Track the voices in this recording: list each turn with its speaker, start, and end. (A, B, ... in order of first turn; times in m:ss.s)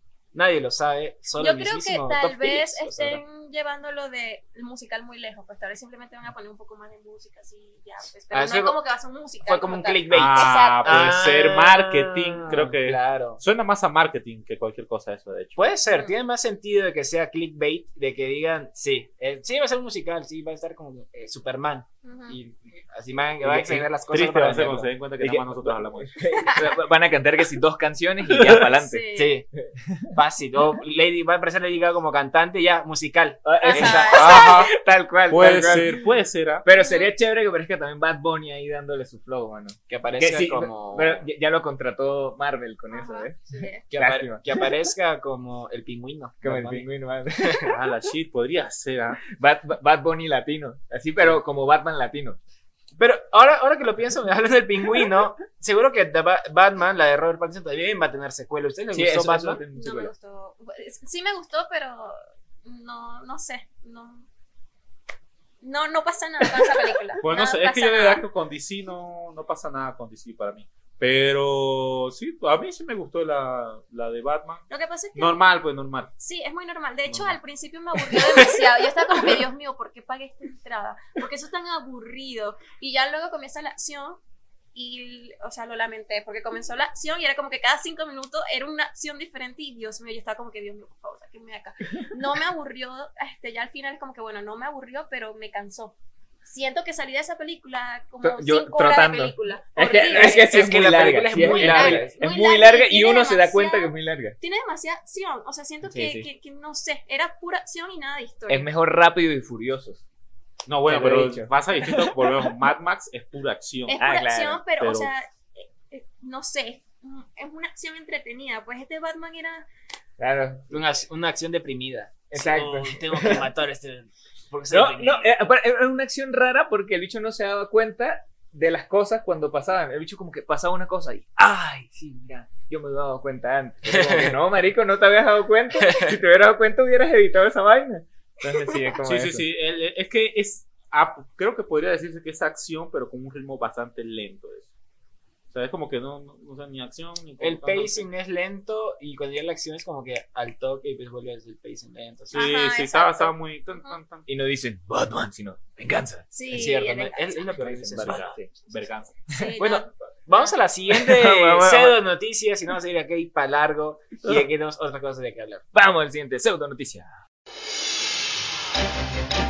0:00.3-0:03.2 A
0:01.4-0:11.2 B
0:08.3-0:08.8 A
0:09.4-0:13.4 A
0:10.1-0:15.6 C
0:15.6-0:24.9 A
0:15.9-0:16.2 B
0:22.0-0:22.4 B
0:23.4-0:26.3 C
0:25.2-0:29.0 D
0:28.8-0:29.4 B
0:29.1-0:29.4 A
0:30.1-0:34.3 A
0:33.4-0:36.0 D
0:33.6-0:34.7 B
0:34.1-0:34.7 C
0:35.3-0:36.6 C
0:36.6-0:43.4 D
0:36.8-0:37.1 B
0:39.9-0:41.3 A
0:42.9-0:43.8 B
0:43.9-0:44.4 D
0:43.9-0:46.8 A
0:46.4-0:47.7 D
0:47.6-0:49.2 C
0:49.3-0:52.4 D
0:53.0-0:59.6 A
0:58.9-1:00.1 D
0:59.8-1:04.2 B
1:05.6-1:08.2 B
1:07.2-1:16.1 C
1:14.7-1:15.4 B
1:16.2-1:24.2 B
1:17.1-1:17.4 C
1:24.7-1:40.4 B
1:38.2-1:44.4 D
1:40.1-1:42.1 A
1:41.3-1:48.7 B
1:45.8-1:46.3 D
1:48.5-1:50.0 D
1:50.6-1:54.0 C
1:50.8-1:51.5 D
1:53.8-1:59.6 B
1:54.0-1:54.6 D
1:54.8-1:55.1 C
2:00.2-2:00.7 D
2:00.7-2:05.4 A
2:02.3-2:03.4 D
2:04.7-2:19.4 D
2:13.9-2:14.3 A
2:19.0-2:24.7 C
2:25.5-2:28.1 C
2:27.4-2:32.5 A
2:32.3-2:34.2 C
2:32.3-2:34.0 B
2:34.2-2:36.2 D
2:36.3-2:37.5 B
2:36.5-2:38.3 A
2:37.6-2:38.5 D
2:38.0-2:39.2 C
2:39.3-2:40.5 B
2:39.6-2:45.6 A
2:40.9-2:42.0 D
2:45.7-2:47.1 D